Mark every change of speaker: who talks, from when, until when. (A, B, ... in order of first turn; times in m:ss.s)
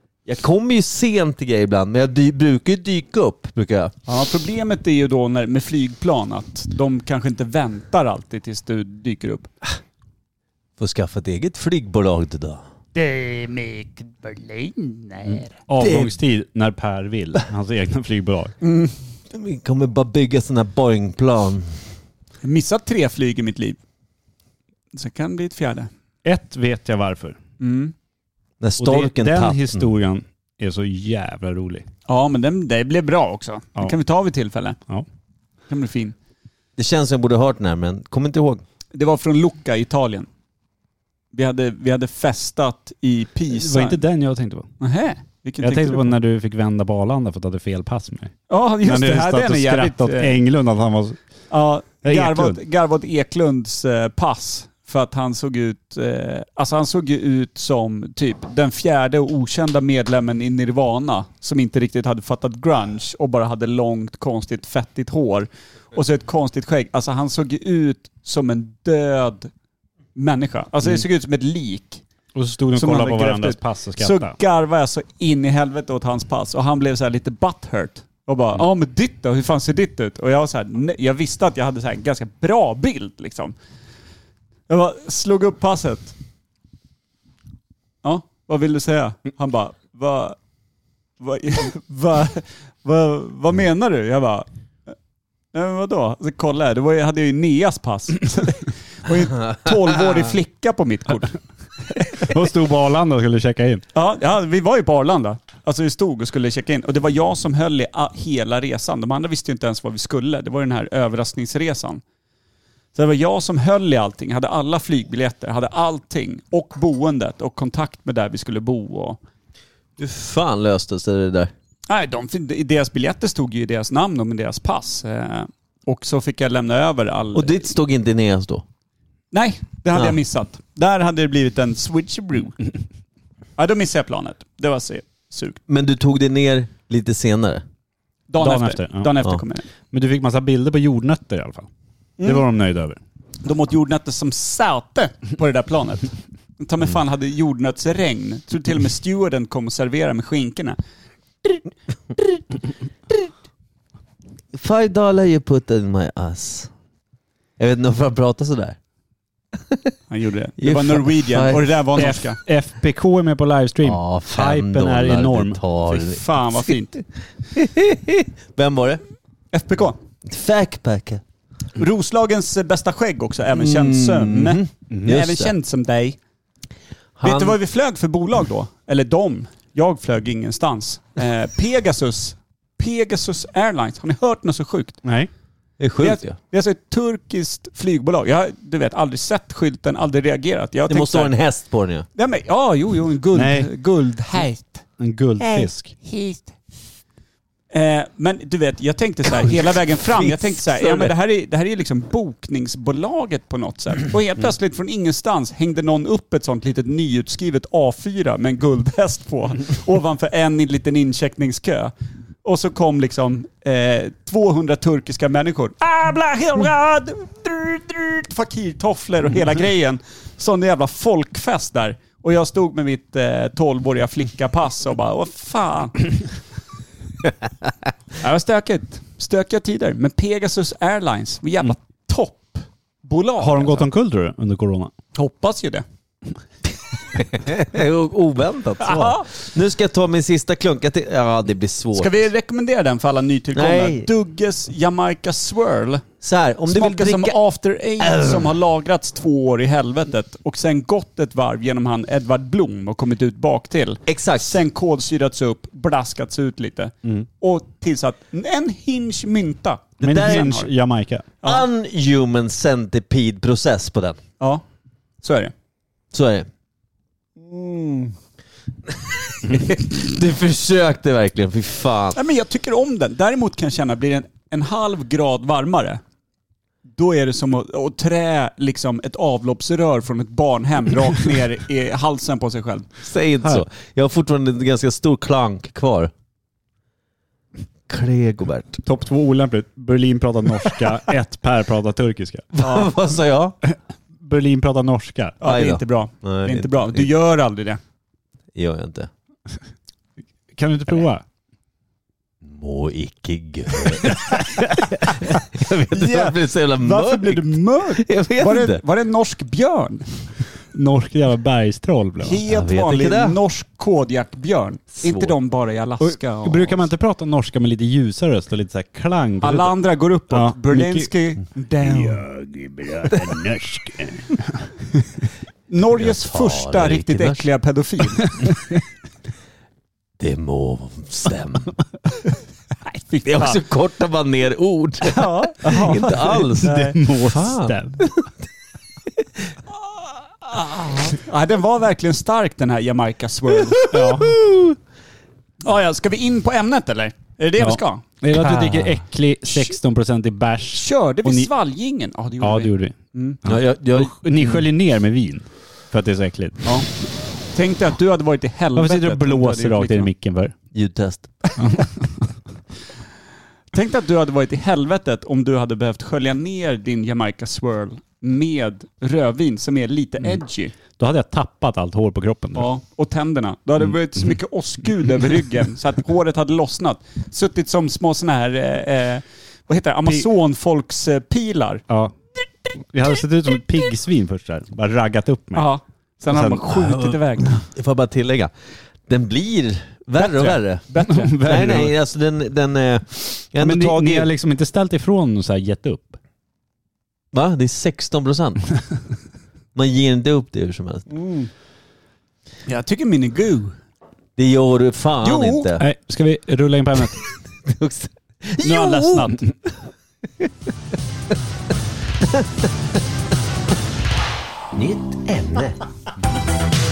0:00.3-0:03.9 A
0:04.1-0:09.5 B
0:10.8-0:12.6 A
0:13.0-0:16.1 B
0:15.3-0:18.6 C
0:15.8-0:16.1 A
0:18.6-0:21.8 A
0:22.4-0:23.8 B
0:24.9-0:25.9 B
0:26.2-0:27.4 C
0:27.6-0:27.9 B
0:28.6-0:29.9 A
0:28.8-0:31.9 C
0:32.1-0:34.8 B
0:35.7-0:36.2 B
0:36.8-0:38.6 A
0:38.9-0:40.3 B
0:41.3-0:44.0 B
0:43.5-0:44.7 C
0:44.8-0:46.1 B
0:45.6-0:51.2 C
0:48.5-0:50.4 B
0:51.5-1:09.5 B
0:52.0-0:52.6 C
1:10.2-1:12.0 B
1:12.4-1:14.4 C
1:12.8-1:23.6 B
1:24.7-1:26.2 B
1:28.0-1:30.4 B
1:31.2-1:34.5 B
1:35.5-1:41.4 B
1:42.0-1:42.3 B
1:42.2-1:43.8 C
1:43.9-1:52.0 B
1:53.0-1:59.2 B
2:00.0-2:01.5 A
2:01.9-2:07.7 B
2:07.4-2:08.6 A
2:09.3-2:12.6 B
2:13.6-2:15.6 B
2:15.7-2:17.6 A
2:18.3-2:19.7 B
2:18.4-2:19.2 C
2:19.9-2:21.7 C
2:22.2-2:22.4 B
2:22.2-2:23.0 C
2:23.4-2:30.8 B
2:34.5-2:36.7 A
2:37.6-2:38.8 A
2:40.1-2:42.4 B
2:40.6-2:41.7 A
2:42.0-2:45.6 C
2:43.8-2:46.3 A
2:45.9-2:47.0 B
2:47.5-2:49.0 A
2:49.5-2:50.0 B
2:50.3-2:51.2 A
2:51.8-2:56.2 B
2:53.6-2:55.5 A
2:57.2-2:57.6 A
2:57.2-3:05.0 B
3:05.0-3:05.3 C
3:05.8-3:06.4 A
3:06.0-3:11.3 B
3:10.9-3:12.1 A
3:12.2-3:14.8 B
3:13.3-3:13.7 C
3:15.0-3:15.9 C
3:15.4-3:16.5 B
3:17.7-3:46.1 B
3:20.2-3:21.1 A
3:48.2-3:53.9 B
3:53.4-3:54.9 C
3:55.1-3:55.8 B
3:57.2-4:02.2 A
3:58.8-3:59.3 B
4:01.9-4:06.0 B
4:03.5-4:04.1 A
4:06.2-4:07.4 A
4:06.7-4:20.7 B
4:08.0-4:08.5 A
4:14.1-4:14.6 A
4:20.0-4:20.6 A
4:20.0-4:21.3 C
4:21.4-4:24.2 A
4:25.2-4:25.5 B
4:26.1-4:26.5 A
4:29.2-4:32.2 A
4:32.2-4:36.0 B
4:37.0-4:42.9 B
4:43.0-4:46.1 A
4:47.9-4:48.8 A
4:48.8-4:52.5 C
4:52.5-4:53.6 A
4:52.6-4:52.9 B
4:54.2-4:55.4 C
4:55.4-4:57.8 B
4:55.4-4:57.1 A
4:58.6-4:59.1 A
5:00.5-5:01.2 C
5:02.4-5:08.8 A
5:05.9-5:10.1 B
5:10.7-5:12.4 C
5:12.2-5:16.8 B
5:12.5-5:13.4 A
5:15.0-5:15.4 A
5:16.0-5:19.7 C
5:19.4-5:22.2 B
5:20.3-5:21.1 C
5:21.8-5:24.6 C
5:25.7-5:28.6 B
5:26.0-5:27.4 A
5:30.2-5:31.8 A
5:32.8-5:33.6 B
5:33.2-5:38.3 A
5:35.0-5:37.0 B
5:36.6-5:38.0 C
5:40.4-5:43.9 B
5:43.8-5:44.8 A
5:43.9-5:44.4 C
5:45.6-5:48.0 B
5:47.6-5:51.5 C
5:48.3-5:49.0 A
5:50.7-5:53.4 B
5:52.4-5:56.8 C
5:53.4-5:54.7 A
5:57.5-6:00.1 B
5:58.8-6:00.6 C
6:00.7-6:01.5 A
6:03.7-6:10.7 B
6:11.0-6:12.7 C
6:12.6-6:21.8 B
6:21.9-6:22.1 C
6:22.8-6:25.7 C
6:25.6-6:27.6 B
6:26.3-6:26.7 C
6:26.9-6:28.5 A
6:29.1-6:30.8 A
6:30.2-6:31.7 B
6:31.0-6:31.9 C
6:31.4-6:34.3 A
6:33.6-6:36.2 C
6:37.3-6:38.7 A
6:39.8-6:41.1 A
6:41.2-6:41.5 B
6:42.7-6:43.8 B
6:44.4-6:45.9 A
6:45.2-6:45.7 B
6:45.8-6:47.2 C
6:47.7-6:49.4 A
6:48.6-6:49.3 C
6:48.7-6:49.3 B
6:54.7-6:55.8 A